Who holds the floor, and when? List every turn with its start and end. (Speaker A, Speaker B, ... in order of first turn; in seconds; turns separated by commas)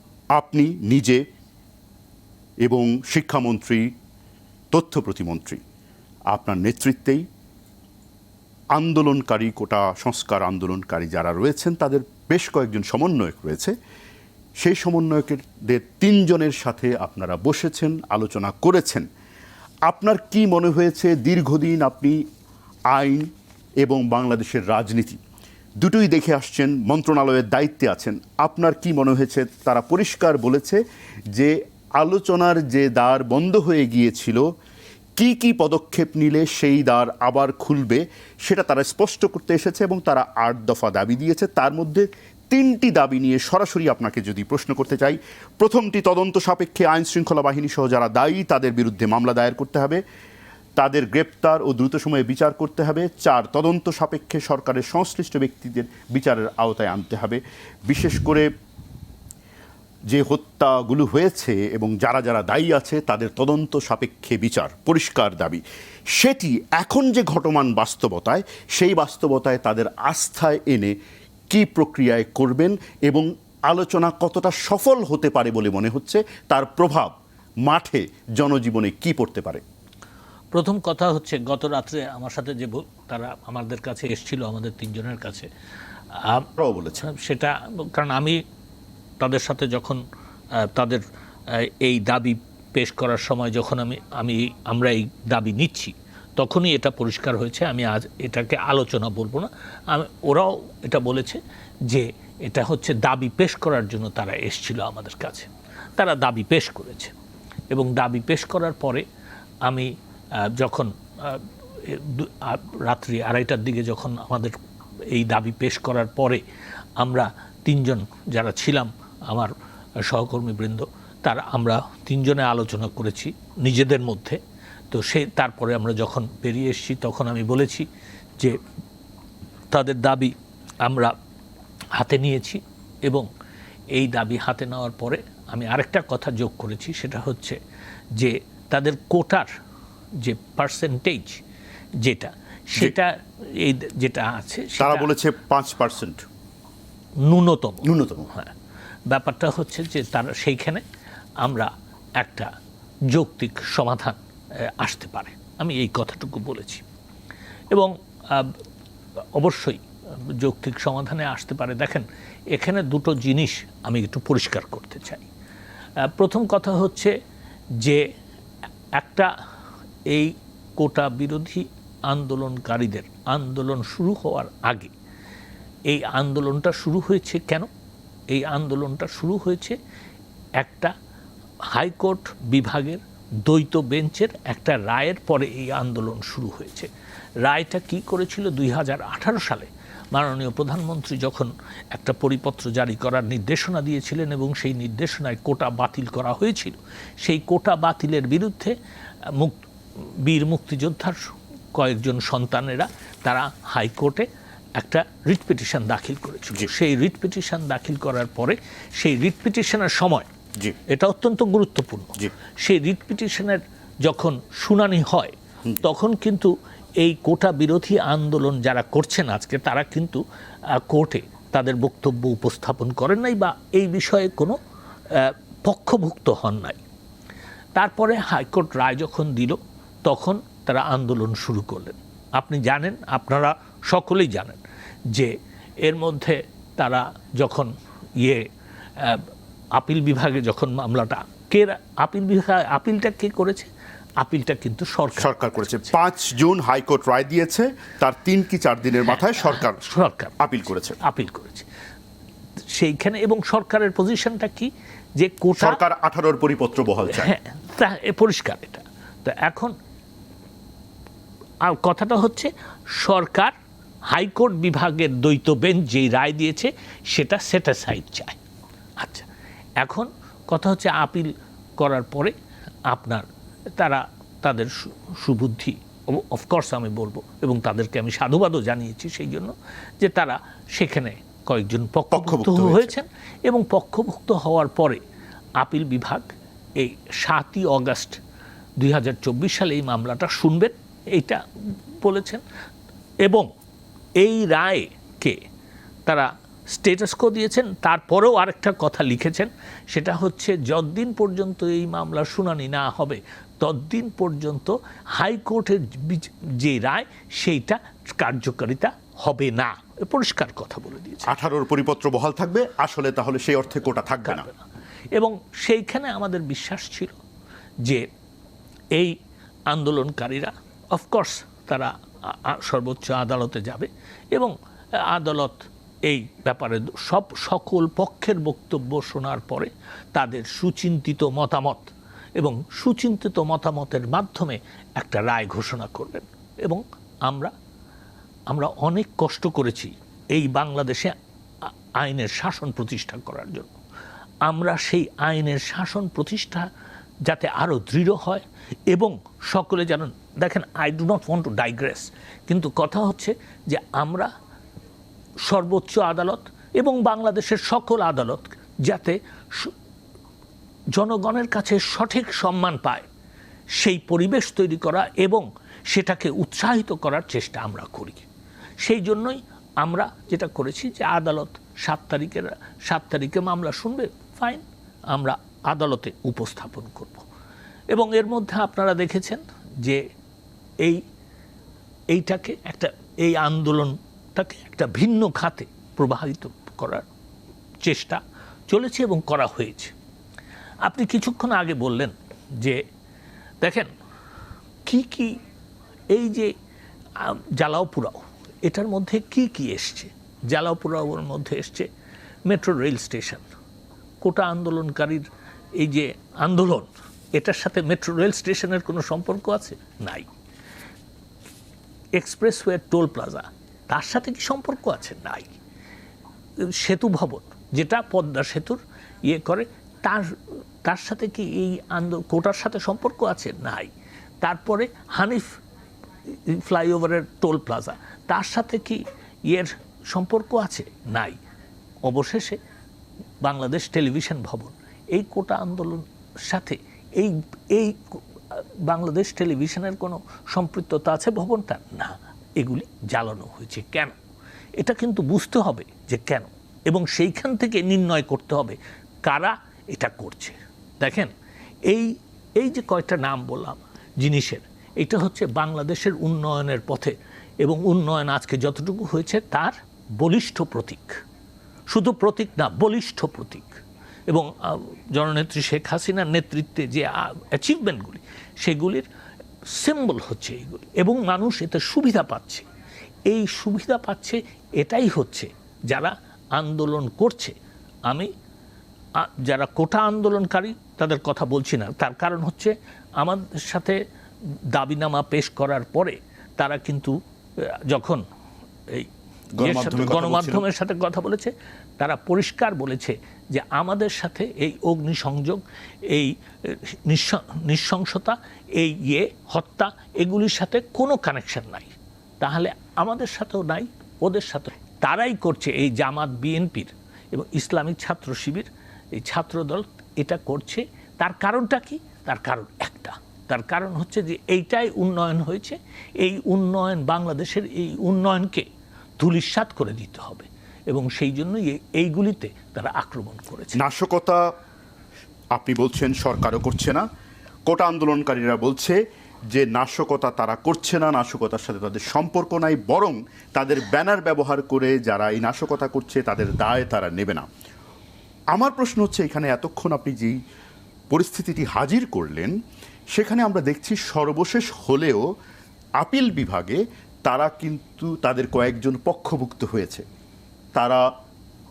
Speaker A: 0.3-1.2, Speaker A: 2.6-3.9, Speaker A: 4.7-5.6, Speaker A: 6.3-7.2, Speaker A: 8.8-13.8, Speaker A: 14.6-19.1, Speaker A: 19.9-22.2, Speaker A: 22.9-23.3, Speaker A: 23.8-25.2, Speaker A: 25.8-30.8, Speaker A: 31.3-34.4, Speaker A: 35.2-50.0, Speaker A: 50.8-58.5, Speaker A: 60.1-65.6, Speaker A: 66.2-71.0, Speaker A: 71.5-77.1, Speaker A: 77.7-79.6, Speaker B: 80.5-85.5, Speaker B: 86.2-86.5, Speaker A: 86.6-87.1, Speaker B: 87.0-88.4, Speaker B: 89.2-90.0, Speaker B: 90.6-107.1, Speaker B: 107.7-109.0, Speaker B: 109.7-109.9, Speaker B: 110.4-114.6, Speaker B: 115.1-116.4, Speaker B: 117.0-124.4, Speaker B: 124.9-127.9, Speaker B: 129.7-131.2, Speaker B: 132.0-133.3, Speaker B: 133.9-137.6, Speaker B: 138.2-139.5, Speaker B: 140.2-141.4, Speaker B: 142.0-145.1, Speaker A: 144.8-146.2, Speaker B: 147.2-148.5, Speaker A: 147.8-148.3, Speaker B: 149.1-150.8, Speaker B: 151.4-152.5, Speaker B: 153.1-156.8, Speaker B: 157.7-158.6, Speaker B: 159.4-159.8, Speaker B: 160.4-165.3, Speaker B: 166.1-167.1, Speaker B: 169.0-169.3, Speaker B: 170.1-174.9, Speaker B: 175.9-177.7, Speaker B: 178.3-179.8, Speaker B: 180.6-180.9, Speaker B: 181.7-186.9, Speaker B: 187.4-198.7, Speaker B: 199.3-204.3, Speaker B: 204.8-210.3, Speaker B: 210.9-220.2, Speaker B: 220.8-224.6, Speaker B: 225.1-226.8, Speaker B: 227.8-238.4, Speaker B: 239.0-243.7, Speaker B: 244.2-245.8, Speaker A: 245.1-249.8, Speaker B: 249.3-250.4, Speaker A: 250.4-251.0, Speaker B: 251.0-251.7, Speaker B: 252.7-255.8, Speaker A: 255.6-257.3, Speaker B: 257.1-259.7, Speaker B: 261.7-263.5, Speaker B: 264.1-268.4, Speaker B: 269.0-269.3, Speaker B: 269.8-272.3, Speaker B: 272.9-273.2, Speaker B: 273.8-285.0, Speaker A: 282.1-282.9, Speaker B: 285.6-288.2, Speaker B: 288.8-291.4, Speaker B: 292.0-292.4, Speaker B: 294.2-295.4, Speaker B: 296.1-311.3, Speaker A: 311.3-314.5, Speaker B: 314.2-314.6, Speaker B: 315.1-317.2, Speaker B: 319.7-324.6, Speaker B: 325.1-337.5, Speaker B: 338.5-341.1, Speaker B: 342.0-343.7, Speaker B: 344.5-346.7, Speaker B: 347.2-354.3, Speaker B: 355.4-359.7, Speaker B: 360.9-363.1, Speaker B: 363.8-368.3, Speaker B: 368.8-377.3, Speaker B: 377.9-380.0, Speaker B: 382.1-387.1, Speaker B: 387.8-389.9, Speaker B: 390.8-392.8, Speaker B: 393.6-393.9, Speaker B: 394.9-395.4, Speaker B: 396.1-396.5, Speaker B: 397.2-401.9, Speaker B: 402.5-403.4, Speaker B: 404.2-405.2, Speaker B: 405.8-410.3, Speaker B: 412.2-415.5, Speaker B: 416.6-423.9, Speaker B: 424.4-425.5, Speaker B: 426.3-431.4, Speaker B: 432.1-432.6, Speaker B: 433.4-444.1, Speaker B: 444.8-451.3, Speaker B: 451.9-461.2, Speaker B: 461.9-463.8, Speaker B: 464.3-469.1, Speaker B: 469.7-472.6, Speaker B: 473.3-477.6, Speaker B: 479.2-484.0, Speaker B: 484.7-488.2, Speaker A: 489.6-490.6, Speaker B: 489.6-518.7, Speaker B: 519.2-523.8, Speaker A: 523.8-524.4, Speaker A: 525.5-527.0, Speaker A: 527.7-529.0, Speaker A: 529.5-537.5, Speaker A: 538.5-540.4, Speaker A: 541.1-542.5, Speaker A: 543.1-545.2, Speaker A: 546.0-550.0, Speaker A: 550.8-551.0